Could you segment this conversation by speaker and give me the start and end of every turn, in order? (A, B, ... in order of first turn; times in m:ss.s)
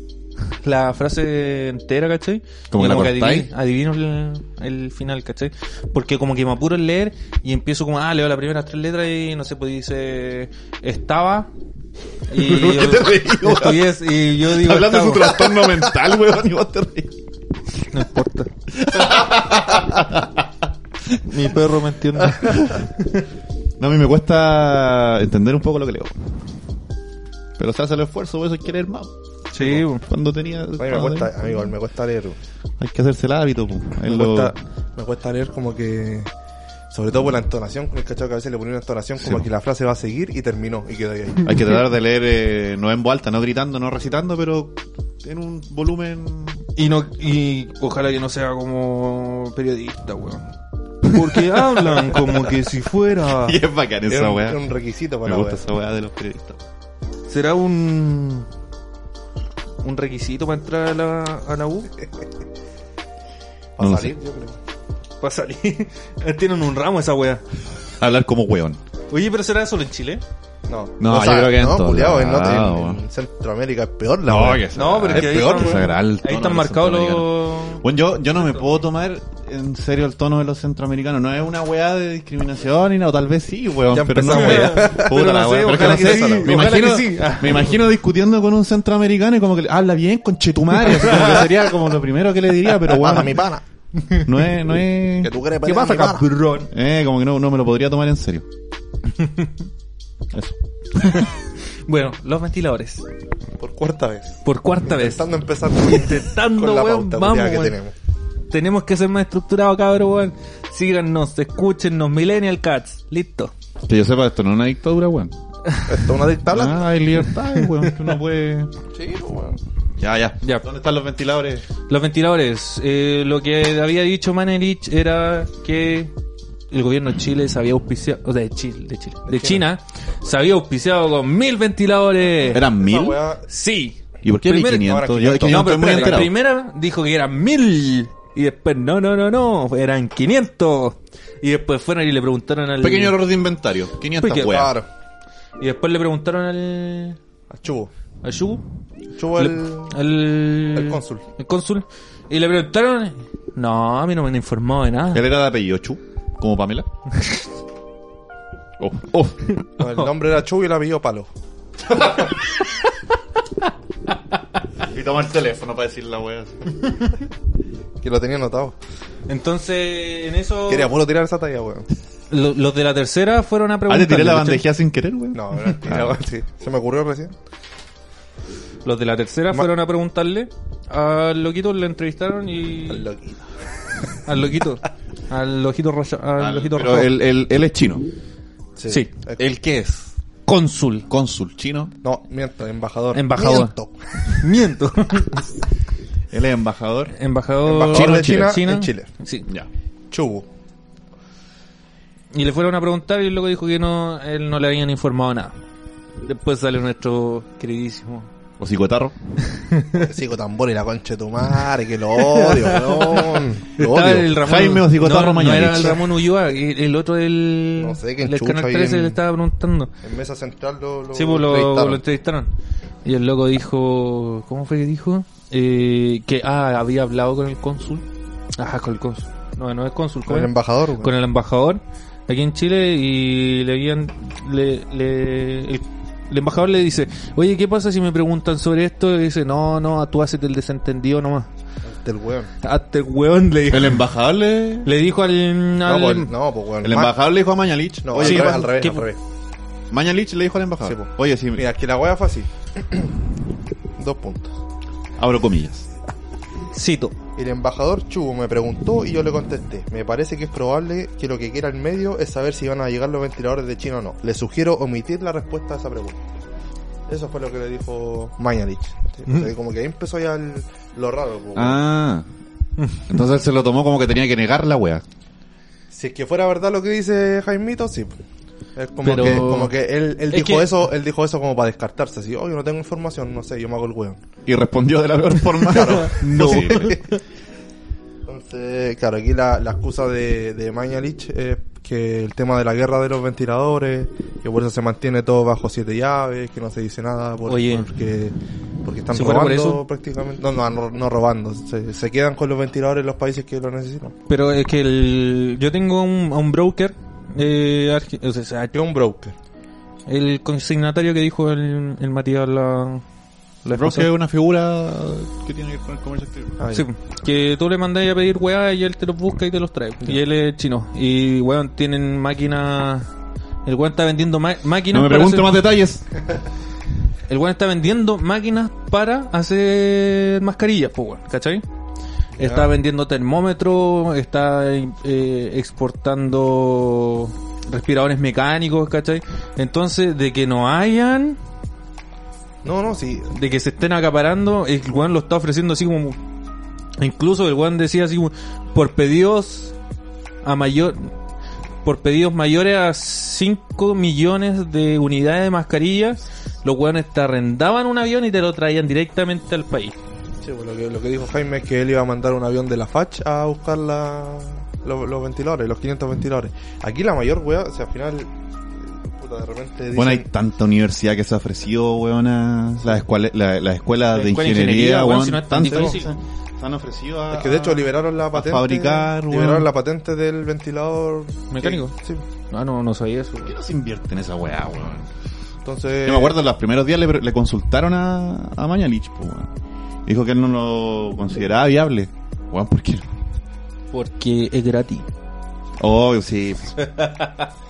0:00.6-0:11.5 A
0:02.7-0:03.5 B
0:12.3-0:15.6 A
0:12.3-0:17.2 B
0:17.9-0:18.5 A
0:18.7-0:20.5 B
0:21.2-0:22.8 A
0:22.4-0:22.9 B
0:23.8-0:26.1 B
0:27.6-0:31.3 B
0:29.5-0:30.0 A
0:30.8-0:32.4 C
0:32.8-0:34.5 B
0:34.0-0:36.3 C
0:36.9-0:41.7 C
0:39.2-0:39.5 B
0:41.4-0:46.6 B
0:46.8-0:50.5 A
0:51.0-0:53.6 A
0:51.2-0:52.2 B
0:53.2-0:54.6 B
0:54.1-0:55.6 C
0:55.2-0:56.6 B
0:57.3-0:58.5 A
0:59.8-1:01.9 A
1:03.8-1:04.6 C
1:03.8-1:04.2 B
1:05.2-1:07.4 A
1:08.0-1:08.8 B
1:09.1-1:10.2 A
1:10.7-1:15.9 C
1:11.0-1:13.0 B
1:14.3-1:33.4 B
1:14.7-1:17.8 A
1:23.9-1:26.8 C
1:24.2-1:27.8 A
1:30.9-1:31.4 A
1:31.1-1:31.4 C
1:32.9-1:33.6 C
1:34.0-1:34.3 A
1:34.2-1:35.3 B
1:35.2-1:36.3 C
1:35.6-1:36.7 A
1:36.7-1:38.5 B
1:39.2-1:39.5 A
1:40.3-1:41.3 B
1:41.9-1:43.0 A
1:43.6-1:47.9 C
1:44.4-1:45.3 A
1:45.8-1:47.8 A
1:48.5-1:53.5 A
1:53.9-1:55.3 B
1:55.7-1:55.9 A
1:55.9-1:56.9 C
1:56.5-1:58.7 B
1:57.2-1:58.1 A
1:58.9-1:59.6 C
2:00.0-2:01.7 B
2:01.9-2:06.1 A
2:06.7-2:12.6 A
2:09.3-2:09.7 C
2:12.3-2:13.5 C
2:12.5-2:13.2 B
2:13.5-2:23.2 A
2:14.2-2:16.3 B
2:14.7-2:16.2 C
2:22.8-2:24.8 B
2:24.2-2:24.7 A
2:24.3-2:24.9 C
2:25.6-2:27.2 A
2:27.5-2:27.9 C
2:28.2-2:28.6 A
2:29.2-2:30.0 C
2:29.4-2:35.2 A
2:30.7-2:31.2 C
2:35.1-2:36.9 B
2:38.8-2:39.4 B
2:39.8-2:41.3 C
2:44.9-2:46.8 B
2:48.0-2:48.8 C
2:49.3-2:50.9 A
2:50.7-2:51.9 C
2:52.3-2:54.6 A
2:53.9-2:56.2 B
2:55.3-2:57.4 C
2:58.8-3:03.1 A
3:02.9-3:03.4 C
3:04.2-3:07.1 A
3:06.4-3:08.1 B
3:08.8-3:09.4 C
3:08.9-3:09.1 A
3:09.4-3:10.1 B
3:10.5-3:11.1 A
3:11.1-3:11.9 B
3:12.0-3:14.5 C
3:13.1-3:15.6 A
3:16.3-3:17.1 B
3:17.1-3:19.5 A
3:17.7-3:19.1 C
3:17.8-3:18.6 B
3:20.1-3:20.5 C
3:22.3-3:25.6 A
3:26.2-3:28.3 A
3:28.6-3:29.1 B
3:29.5-3:30.1 A
3:29.9-3:34.4 C
3:32.2-3:39.9 A
3:34.4-3:36.0 B
3:37.8-3:39.2 C
3:40.0-3:42.0 C
3:41.1-3:42.5 A
3:43.0-3:48.1 A
3:48.6-4:01.5 A
3:50.3-3:51.1 C
4:01.9-4:02.5 C
4:02.6-4:04.0 A
4:03.7-4:04.9 B
4:04.8-4:06.3 A
4:05.8-4:07.2 C
4:06.8-4:08.7 B
4:08.0-4:09.2 C
4:08.2-4:09.1 A
4:09.9-4:11.6 B
4:10.8-4:13.1 C
4:14.0-4:14.5 C
4:15.2-4:15.9 B
4:16.7-4:17.1 A
4:17.4-4:26.2 C
4:27.1-4:31.8 C
4:31.6-4:32.3 B
4:33.1-4:35.0 B
4:35.9-4:38.1 C
4:38.8-4:44.2 C
4:39.0-4:39.7 A
4:40.3-4:40.7 A
4:44.5-4:47.0 B
4:45.6-4:47.0 C
4:45.8-4:47.2 A
4:48.3-4:58.3 C
4:57.5-4:57.9 A
4:58.8-5:04.2 C
4:59.1-4:59.8 A
5:04.3-5:08.8 A
5:08.7-5:09.3 C
5:10.1-5:13.0 A
5:13.6-5:14.1 A
5:13.7-5:16.6 B
5:16.6-5:16.9 C
5:16.7-5:23.1 A
5:23.7-5:25.6 A
5:24.9-5:26.1 B
5:27.3-5:31.6 A
5:32.4-5:32.7 C
5:32.4-5:41.4 A
5:42.6-5:43.3 C
5:43.3-5:46.2 A
5:47.0-5:49.8 A
5:50.4-5:51.1 A
5:51.8-6:00.0 A
6:00.4-6:08.3 C
6:08.8-6:10.2 C
6:09.9-6:19.7 B
6:14.1-6:16.1 A
6:17.3-6:22.2 C
6:21.5-6:21.9 A
6:22.5-6:23.5 A
6:23.4-6:25.1 B
6:25.6-6:26.4 C
6:26.0-6:29.5 B
6:30.1-6:33.0 B
6:33.9-6:35.1 A
6:35.8-6:36.8 B
6:36.8-6:37.5 A